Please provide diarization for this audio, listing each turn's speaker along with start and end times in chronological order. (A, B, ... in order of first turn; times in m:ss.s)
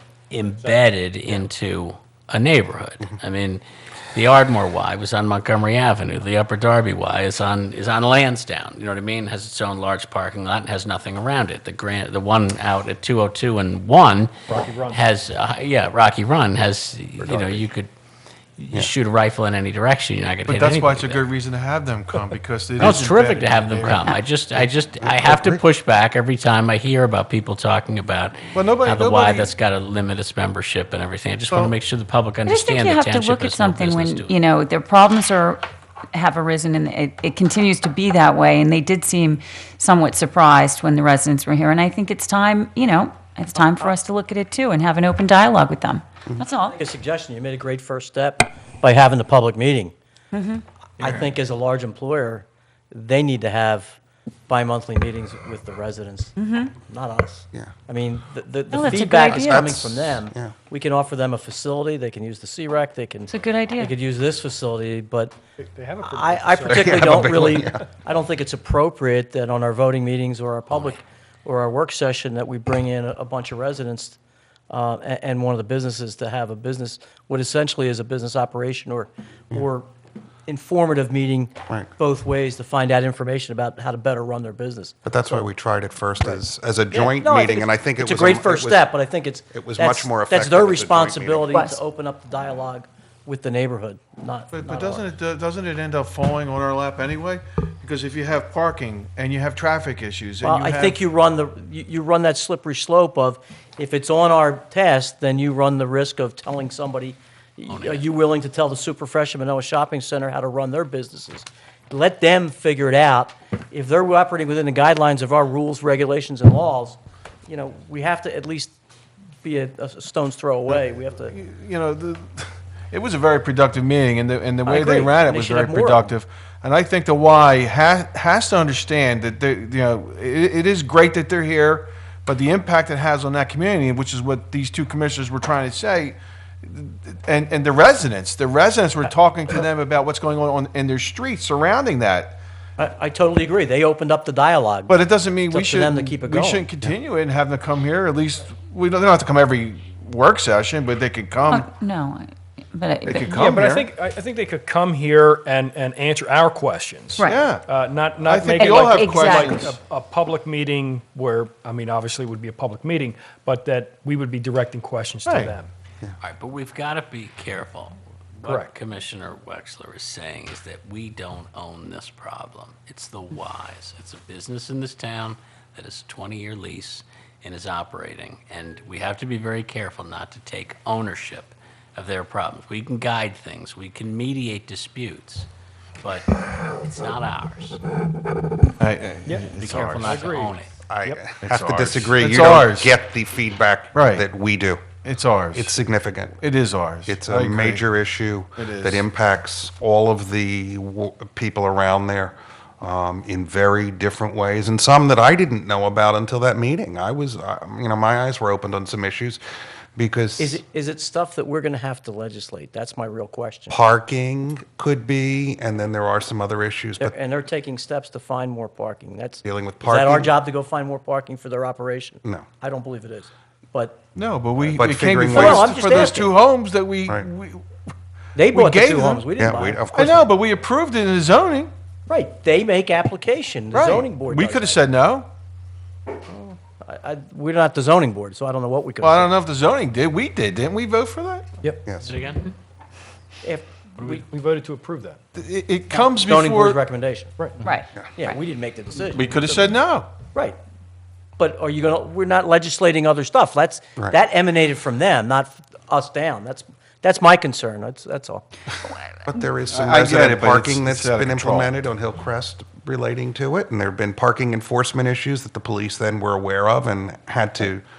0:00.3-0:03.6 A
0:04.1-0:14.3 A
0:14.5-0:15.0 B
0:14.9-0:17.9 A
0:17.2-0:17.7 C
0:18.6-0:21.3 A
0:20.4-0:24.1 D
0:22.8-0:34.3 A
0:25.0-0:25.6 C
0:28.5-0:29.5 D
0:31.5-0:31.7 D
0:32.4-0:46.8 E
0:46.6-0:49.9 F
0:50.3-0:50.6 E
0:51.0-0:54.0 F
0:54.5-1:05.4 F
0:56.4-0:56.7 E
0:58.7-0:59.8 E
0:58.8-1:00.5 C
1:03.3-1:03.9 E
1:05.6-1:07.6 B
1:06.0-1:14.2 F
1:06.7-1:07.8 C
1:10.7-1:11.0 A
1:14.7-1:19.9 F
1:20.4-1:25.5 F
1:25.0-1:28.9 C
1:26.2-1:35.1 F
1:29.5-1:31.6 C
1:31.5-1:31.8 E
1:34.5-1:41.0 D
1:40.4-1:58.7 F
1:47.7-1:48.0 A
1:59.4-2:01.4 F
2:00.7-2:22.4 D
2:04.6-2:06.2 F
2:22.8-2:26.7 F
2:24.9-2:31.7 D
2:31.5-2:33.5 E
2:33.0-2:33.9 D
2:33.3-2:45.7 B
2:37.2-2:37.4 E
2:37.3-2:37.7 D
2:38.2-2:39.8 D
2:38.6-2:39.6 E
2:45.2-2:45.6 D
2:46.2-3:05.5 A
2:48.4-2:48.8 B
3:06.0-3:07.8 A
3:08.8-3:10.2 D
3:09.2-3:11.4 B
3:09.6-3:10.7 A
3:10.9-3:14.9 C
3:11.4-3:13.0 D
3:13.9-3:14.3 D
3:15.0-3:15.8 D
3:15.5-3:16.4 C
3:16.4-3:17.8 D
3:17.1-3:29.4 C
3:18.6-3:19.1 D
3:30.0-3:30.6 C
3:30.4-3:33.8 F
3:33.7-3:37.1 C
3:37.0-3:44.0 F
3:39.4-3:40.4 C
3:44.1-3:47.7 D
3:44.6-3:45.8 C
3:45.3-3:46.4 F
3:48.3-3:50.2 F
3:48.4-3:49.3 D
3:49.4-3:50.2 C
3:49.9-3:51.7 D
3:52.1-3:54.9 F
3:53.7-3:55.3 D
3:56.3-3:59.4 F
3:59.0-4:01.5 D
4:02.0-4:02.5 A
4:03.4-4:04.2 F
4:04.2-4:05.2 B
4:05.3-4:06.8 D
4:06.1-4:07.3 F
4:07.4-4:07.6 B
4:07.6-4:08.4 E
4:08.2-4:09.8 F
4:09.1-4:10.2 D
4:10.3-4:10.6 F
4:11.4-4:18.4 F
4:19.3-4:27.8 C
4:19.7-4:21.7 D